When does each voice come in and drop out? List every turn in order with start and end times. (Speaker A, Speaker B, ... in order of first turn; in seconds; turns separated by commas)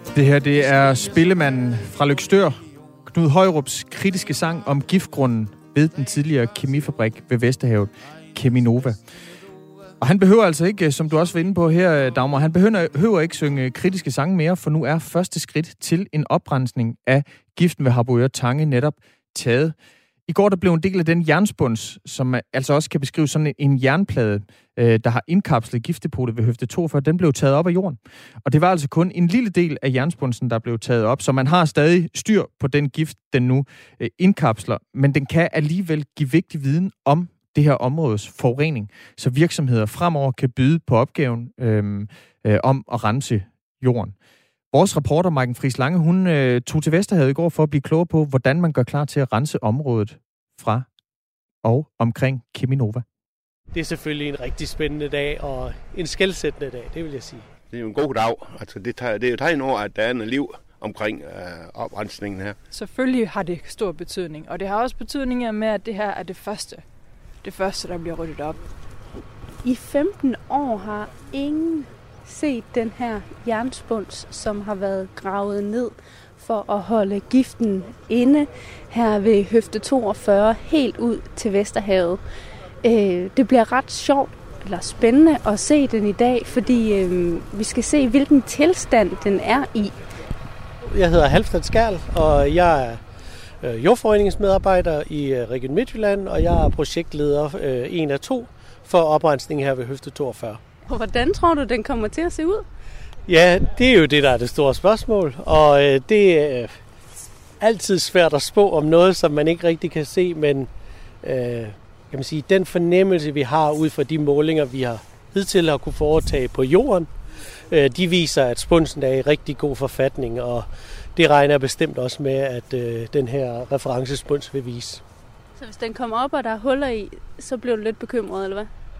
Speaker A: 0.1-9.1, Speaker A: 10.0-19.7, Speaker A: 20.3-44.1, Speaker A: 44.7-50.9, Speaker A: 51.6-53.0, Speaker B: 53.7-57.5, Speaker C: 57.7-62.6, Speaker D: 62.7-68.7, Speaker E: 69.6-82.2, Speaker E: 82.8-90.1, Speaker B: 90.8-100.6, Speaker E: 100.8-102.7, Speaker B: 103.3-106.8, Speaker B: 107.6-110.7, Speaker B: 111.2-125.0, Speaker E: 125.5-128.7